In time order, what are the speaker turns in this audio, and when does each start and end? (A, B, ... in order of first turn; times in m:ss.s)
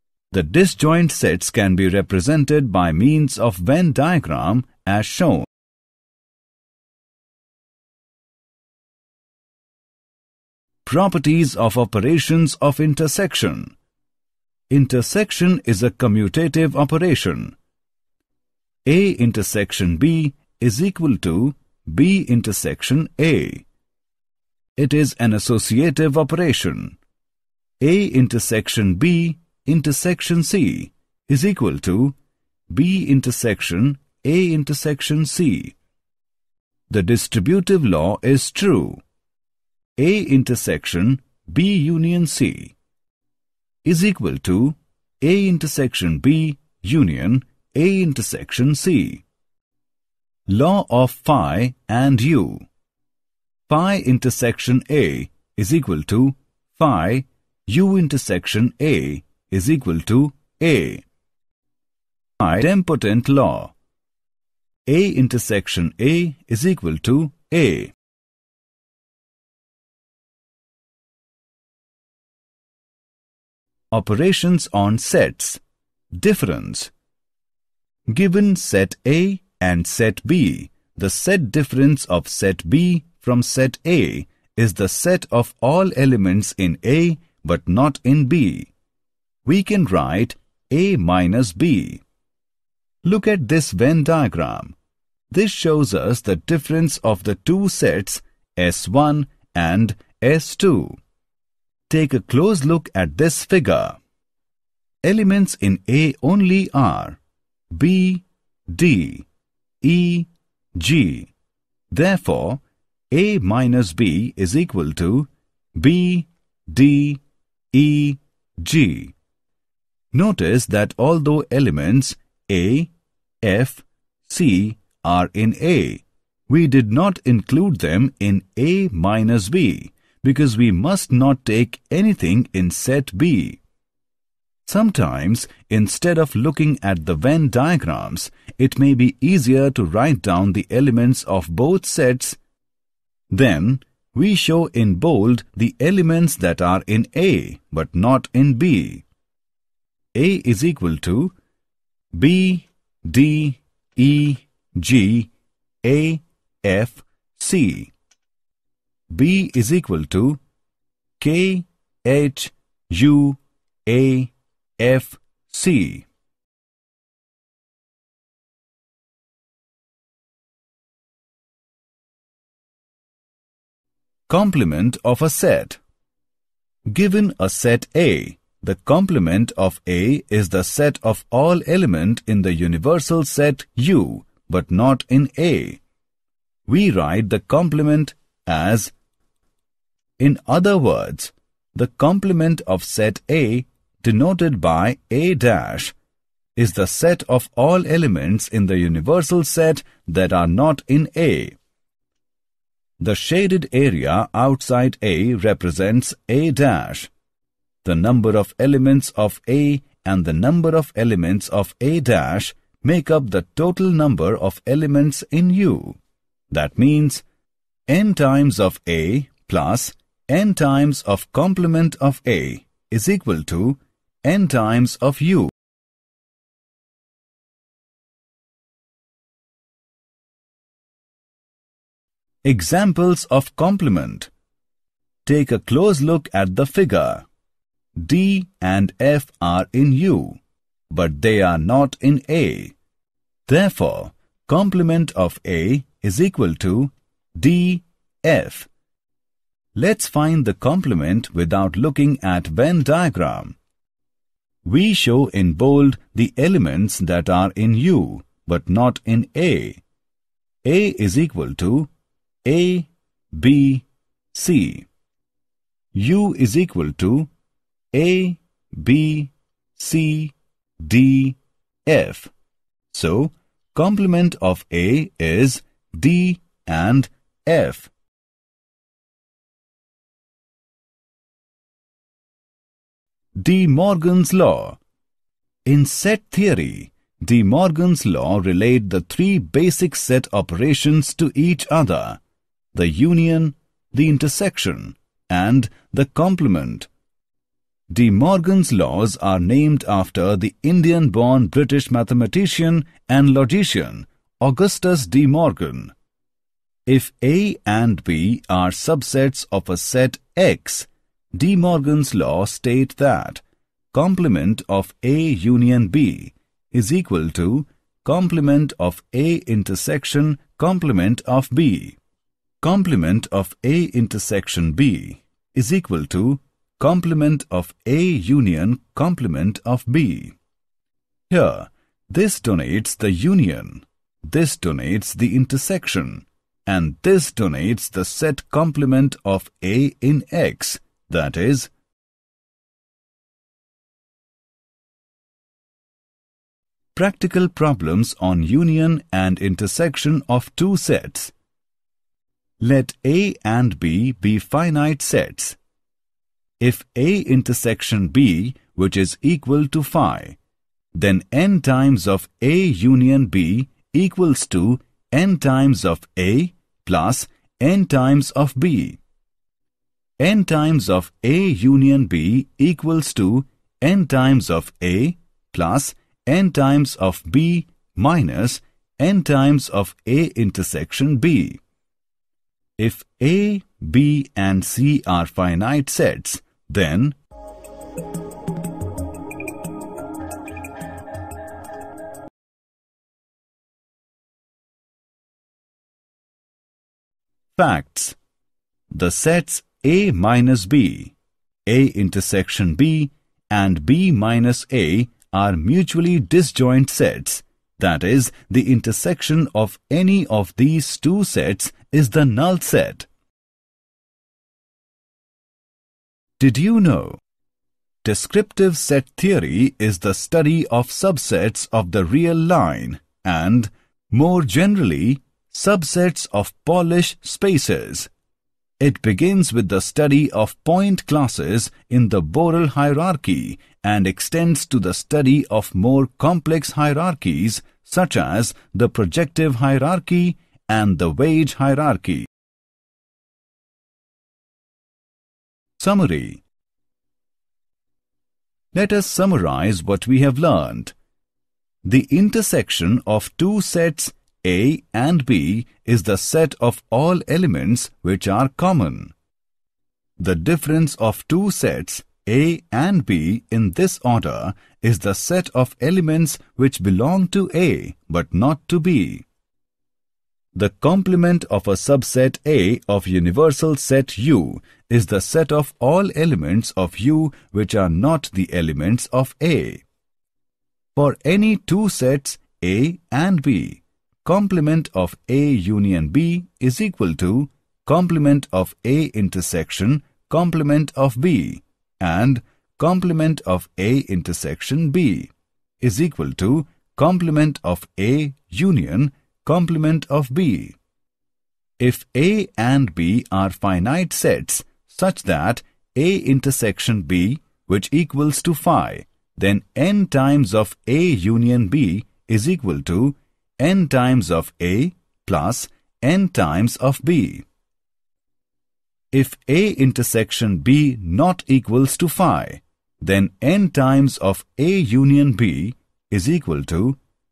0:00.3-0:05.5 A
0:10.8-0:13.8 A
0:14.7-0:17.6 A
0:18.9-0:23.6 A
0:24.8-0:27.0 A
0:27.8-0:32.2 A
0:32.7-0:35.8 A
0:36.9-0:39.0 A
0:40.0-0:42.8 A
0:43.8-0:49.2 A
0:50.5-0:52.7 A
0:53.7-1:01.0 A
1:02.4-1:03.7 A
1:04.9-1:07.9 A
1:13.9-1:15.6 A
1:16.1-1:16.9 A
1:18.1-1:28.7 A
1:29.4-1:32.0 A
1:33.0-1:34.8 A
1:35.3-1:41.0 A
1:41.9-1:44.0 A
1:45.0-1:47.2 A
1:47.7-1:49.3 A
1:49.8-1:51.3 A
1:51.9-1:57.2 A
1:57.7-1:59.1 A
2:00.1-2:13.6 A
2:14.7-2:22.4 A
2:23.3-2:29.0 A
2:30.1-2:31.3 A
2:32.1-2:35.3 A
2:35.8-2:37.9 A
2:39.1-2:40.4 A
2:41.2-2:46.1 A
2:54.3-2:55.8 A
2:56.9-3:05.8 A
3:06.7-3:08.9 A
3:10.2-3:16.0 A
3:16.6-3:21.6 A
3:23.0-3:27.1 A
3:27.8-3:36.0 A
3:36.5-3:37.2 A
3:37.9-3:45.5 A
3:52.4-3:54.3 A
3:55.2-3:57.3 A
3:58.0-4:00.4 A
4:00.9-4:02.8 A
4:03.5-4:08.7 A
4:09.8-4:13.6 A
4:14.6-4:19.8 A
4:20.6-4:21.9 A
4:22.4-4:24.9 A
4:25.9-4:27.3 A
4:27.9-4:32.3 A
4:32.9-4:37.9 A
4:43.4-4:44.8 A
4:45.6-4:52.2 A
4:52.7-4:56.9 A
4:57.9-5:05.9 A
5:06.9-5:22.0 A
5:22.6-5:30.4 A
5:31.3-5:41.7 A
5:47.0-5:51.3 A
5:52.6-5:55.6 A
5:56.6-6:00.4 A
6:00.9-6:09.0 A
6:10.2-6:21.6 A
6:22.8-6:27.2 A
6:37.6-6:38.2 A
6:38.9-6:41.2 A
6:41.7-6:53.1 A
6:56.4-6:57.2 A
6:58.0-7:08.1 A
7:08.8-7:22.3 A
7:25.8-7:26.4 A
7:28.7-7:30.9 A
7:31.8-7:39.1 A
7:40.2-7:49.2 A
7:50.5-7:59.8 A
8:01.0-8:20.8 A
8:21.8-8:37.4 A
8:39.1-8:47.0 A